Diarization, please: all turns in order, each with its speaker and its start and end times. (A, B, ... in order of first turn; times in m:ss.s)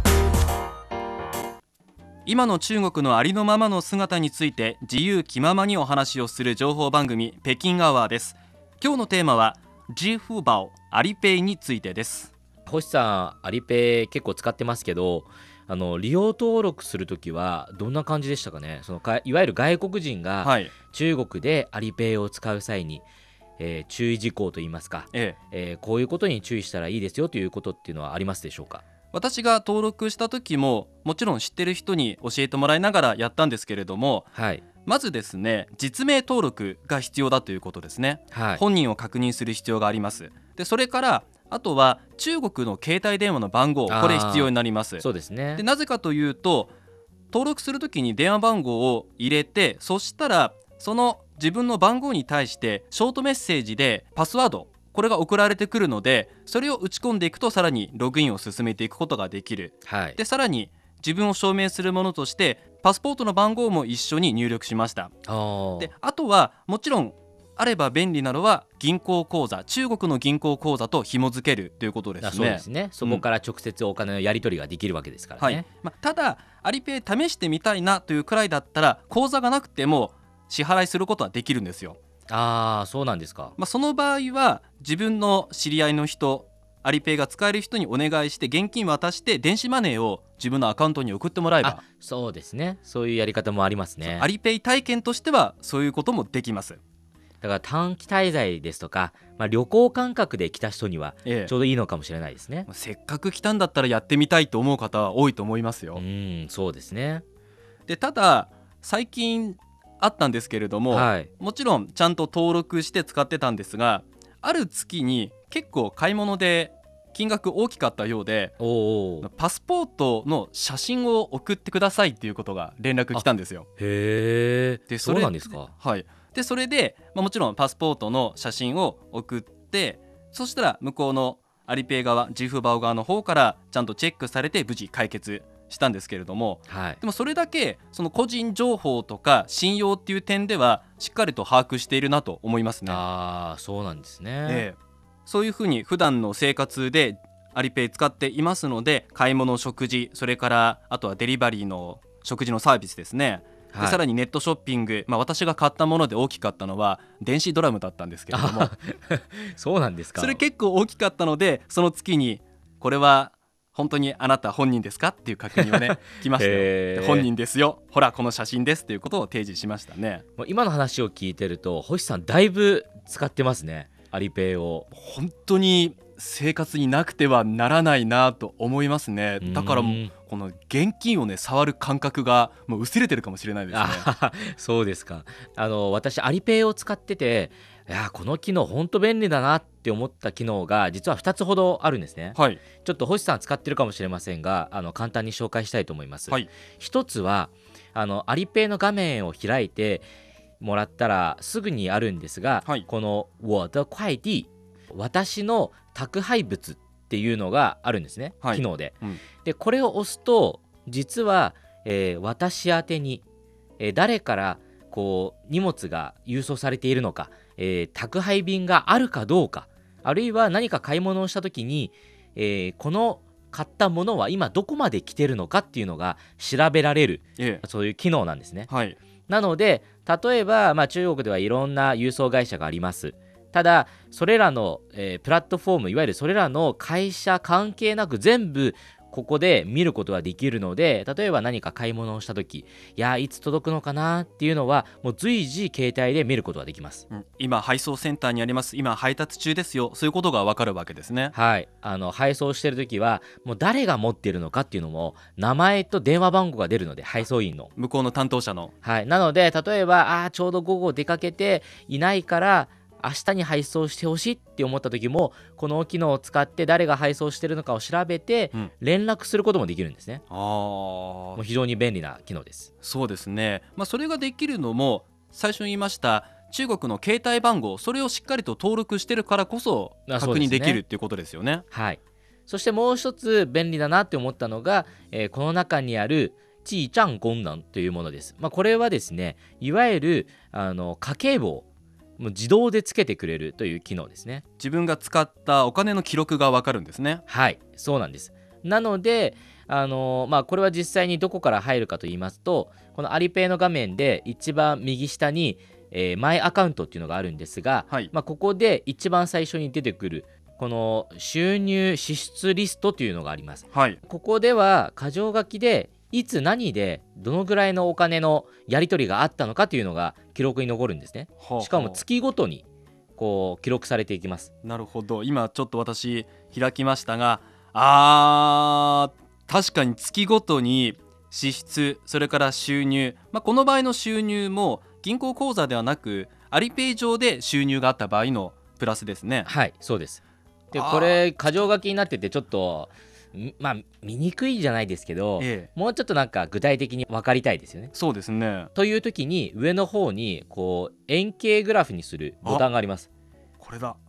0:02.2-0:12.3 A
0:12.6-0:23.0 B
0:20.4-0:20.7 A
0:23.6-0:28.8 B
0:25.1-0:25.4 A
0:29.1-0:34.3 A
0:34.3-0:34.6 B
0:34.8-0:45.0 A
0:38.3-0:38.6 B
0:43.9-0:45.6 B
0:45.6-0:46.7 A
0:47.3-1:05.1 A
0:59.8-1:00.2 B
1:05.3-1:05.9 B
1:05.8-1:13.2 A
1:12.2-1:15.6 B
1:15.4-1:22.0 A
1:22.3-1:23.6 B
1:23.6-1:31.8 A
1:31.6-1:34.3 B
1:34.0-1:36.8 A
1:37.4-1:42.7 B
1:41.2-1:41.5 A
1:42.7-1:46.0 A
1:45.9-1:47.2 B
1:47.9-1:58.5 A
1:50.9-1:51.3 B
1:58.6-1:59.3 B
1:59.2-2:03.7 A
2:03.8-2:05.7 B
2:04.9-2:23.0 A
2:16.7-2:17.0 B
2:22.8-2:24.7 B
2:24.5-2:38.7 A
2:33.7-2:34.0 B
2:38.3-2:40.4 B
2:40.2-2:50.2 A
2:45.5-2:47.3 B
2:50.4-2:54.9 B
2:54.9-3:04.1 A
2:59.4-3:00.1 B
3:03.7-3:20.1 B
3:12.3-3:12.6 A
3:20.6-3:33.2 B
3:28.4-3:29.2 A
3:33.8-3:48.7 B
3:47.4-3:47.6 A
3:48.7-3:49.0 A
3:49.3-4:07.0 B
4:07.1-4:11.3 A
4:11.3-4:17.7 B
4:17.8-4:18.7 A
4:18.8-4:30.2 B
4:30.3-4:31.4 A
4:31.4-4:32.7 B
4:32.8-4:41.6 A
4:40.1-4:40.8 B
4:41.7-4:51.7 B
4:52.2-4:54.4 B
4:54.6-4:57.2 A
4:57.3-5:22.6 B
5:13.7-5:14.0 A
5:21.4-5:22.0 A
5:23.2-5:24.5 B
5:24.6-5:39.5 A
5:39.4-5:40.2 B
5:40.7-5:41.7 A
5:40.7-5:47.9 B
5:45.4-5:45.7 A
5:47.9-5:48.7 A
5:48.7-5:53.1 B
5:53.6-5:54.0 A